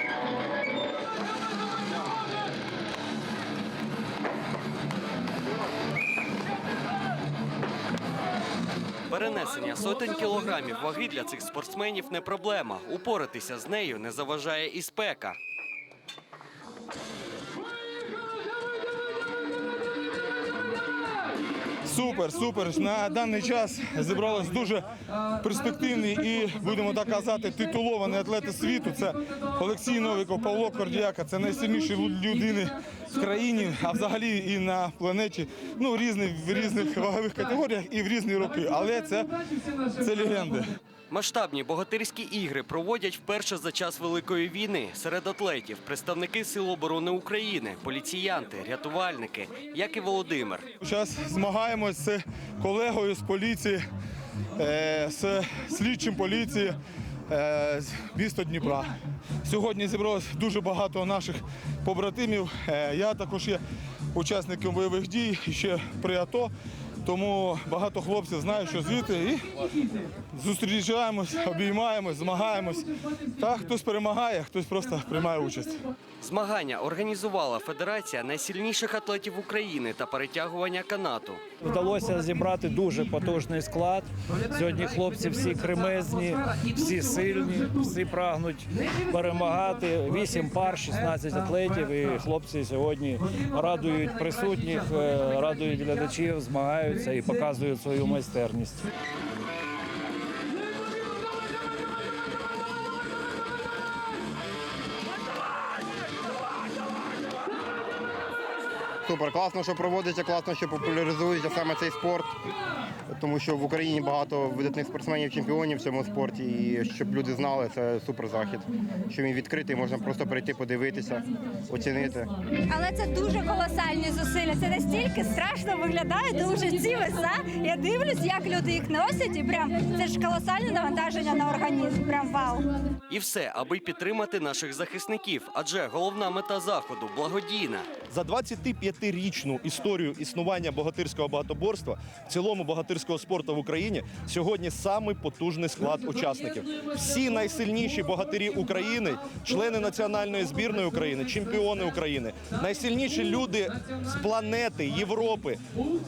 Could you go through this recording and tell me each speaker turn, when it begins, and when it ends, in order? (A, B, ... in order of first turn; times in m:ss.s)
0:09.1-0:15.4 A
0:21.8-0:24.9 B
0:25.4-0:39.3 B
0:40.0-0:40.8 B
0:41.1-0:50.7 A
0:50.8-0:53.9 B
0:54.6-0:56.8 B
0:57.3-0:58.9 B
0:59.4-1:03.6 B
1:04.1-1:06.5 B
1:07.0-1:09.5 B
1:10.3-1:15.8 B
1:16.2-1:21.4 A
1:21.6-1:38.9 C
1:49.0-1:52.4 D
1:53.1-2:02.3 D
2:02.7-2:12.7 E
2:13.1-2:17.9 A
2:18.1-2:35.6 F